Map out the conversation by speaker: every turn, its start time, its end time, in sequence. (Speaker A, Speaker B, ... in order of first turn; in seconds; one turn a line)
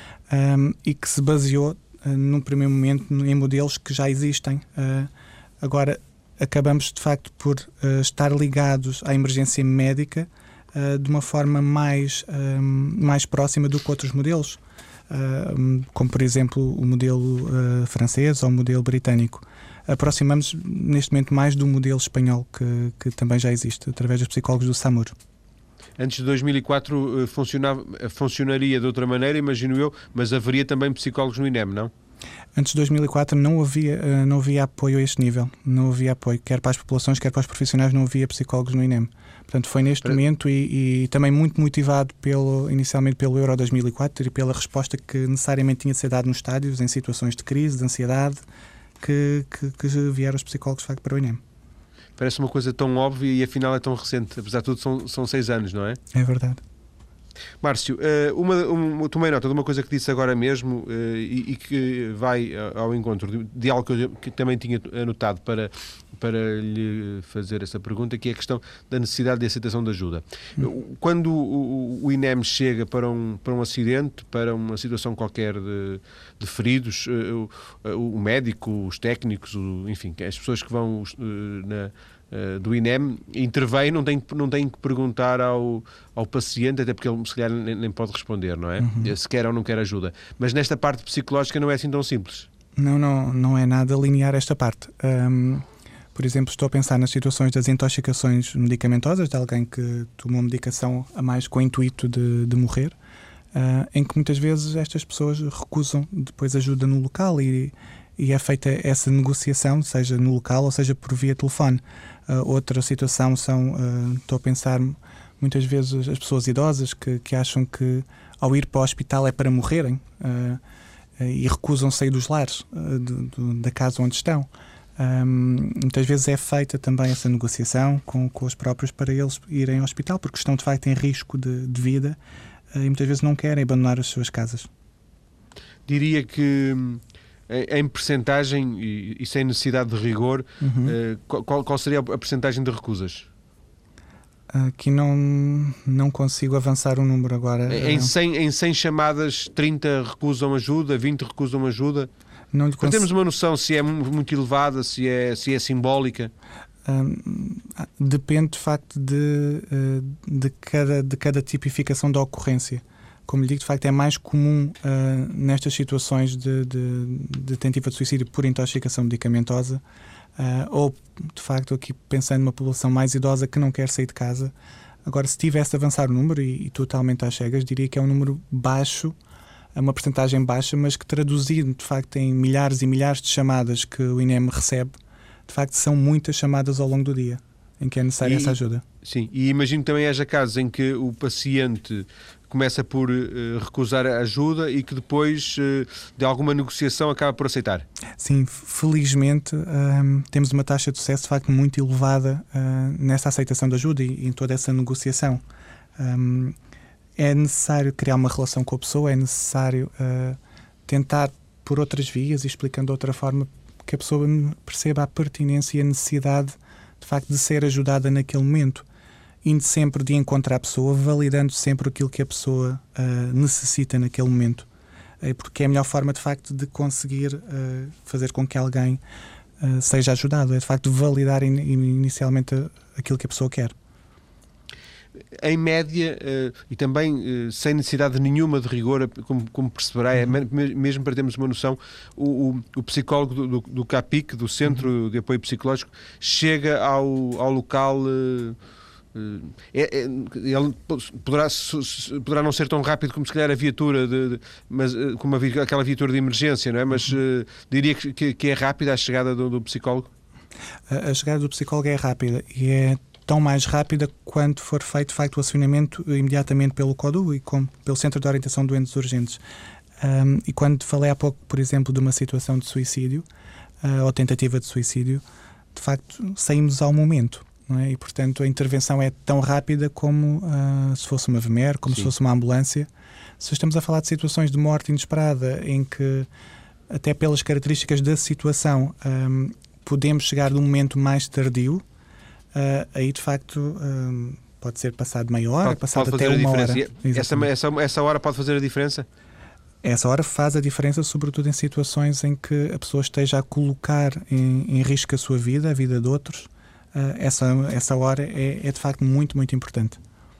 Speaker A: 0.3-25.1
Speaker B: 26.0-31.9
Speaker A: 32.5-48.4
Speaker A: 49.0-51.4
Speaker B: 52.2-56.0
Speaker A: 56.1-56.6
Speaker B: 57.6-92.5
Speaker A: 88.8-89.1
Speaker A: 92.8-103.0
Speaker A: 103.5-120.6
Speaker A: 121.2-132.2
Speaker A: 132.7-134.7
Speaker B: 135.9-143.3
Speaker A: 140.6-140.9
Speaker A: 144.5-148.1
Speaker B: 147.7-152.1
Speaker A: 152.5-153.1
Speaker B: 152.8-156.3
Speaker A: 156.8-169.8
Speaker A: 170.4-174.5
Speaker A: 175.0-179.1
Speaker A: 179.7-184.9
Speaker A: 185.5-188.8
Speaker B: 188.2-197.8
Speaker A: 198.2-205.4
Speaker A: 206.0-206.6
Speaker A: 207.2-218.8
Speaker A: 219.4-224.7
Speaker A: 225.2-229.0
Speaker A: 229.6-233.7
Speaker B: 235.3-248.6
Speaker B: 249.1-260.1
Speaker A: 260.9-269.4
Speaker A: 270.0-273.2
Speaker A: 273.8-275.2
Speaker A: 275.7-282.9
Speaker A: 283.4-286.3
Speaker A: 286.9-291.8
Speaker A: 292.5-297.4
Speaker B: 295.6-299.1
Speaker A: 299.8-310.0